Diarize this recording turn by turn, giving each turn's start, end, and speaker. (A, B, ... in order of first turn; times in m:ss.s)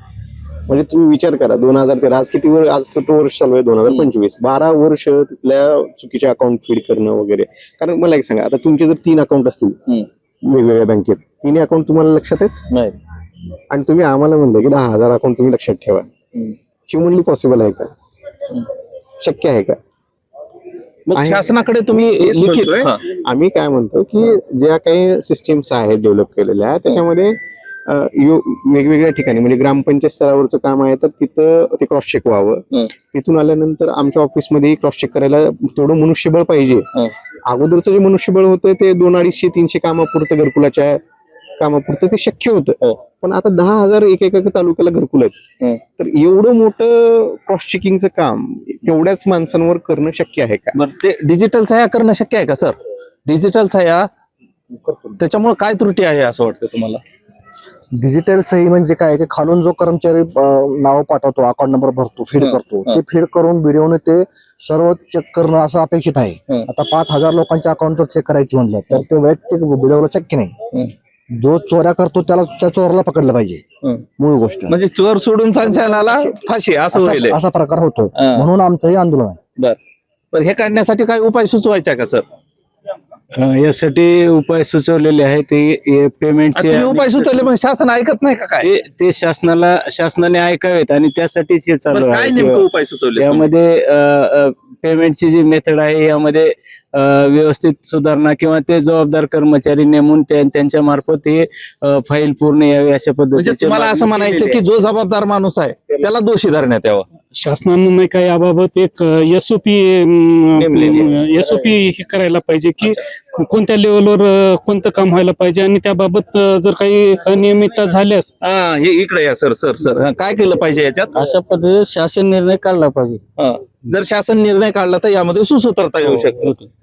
0:00.7-0:09.8 A
0:10.4-0:12.5 A
0:13.7-0:16.1 A
0:16.9-0:17.9 A
0:19.2-0:19.8 A
0:21.1-0:23.0 B
0:21.1-0:27.4 A
0:27.9-0:36.8 A
0:37.5-0:41.0 A
0:41.6-0:45.4 A
0:46.0-0:50.7 A
0:50.7-0:52.7 B
0:53.2-0:54.1 B
0:55.2-0:57.0 B
0:58.0-1:10.5 C
1:02.4-1:03.0 B
1:11.3-1:13.6 C
1:14.2-1:14.7 C
1:14.7-1:17.4 B
1:15.9-1:16.3 C
1:16.9-1:19.4 C
1:18.2-1:18.5 B
1:20.3-1:22.2 B
1:23.3-1:27.5 D
1:26.6-1:28.7 B
1:28.6-1:44.6 D
1:31.9-1:33.5 B
1:43.4-1:47.0 B
1:47.3-1:58.3 E
1:50.6-1:51.1 B
1:58.4-2:01.2 B
2:01.1-2:03.2 F
2:03.4-2:06.6 B
2:06.2-2:06.6 F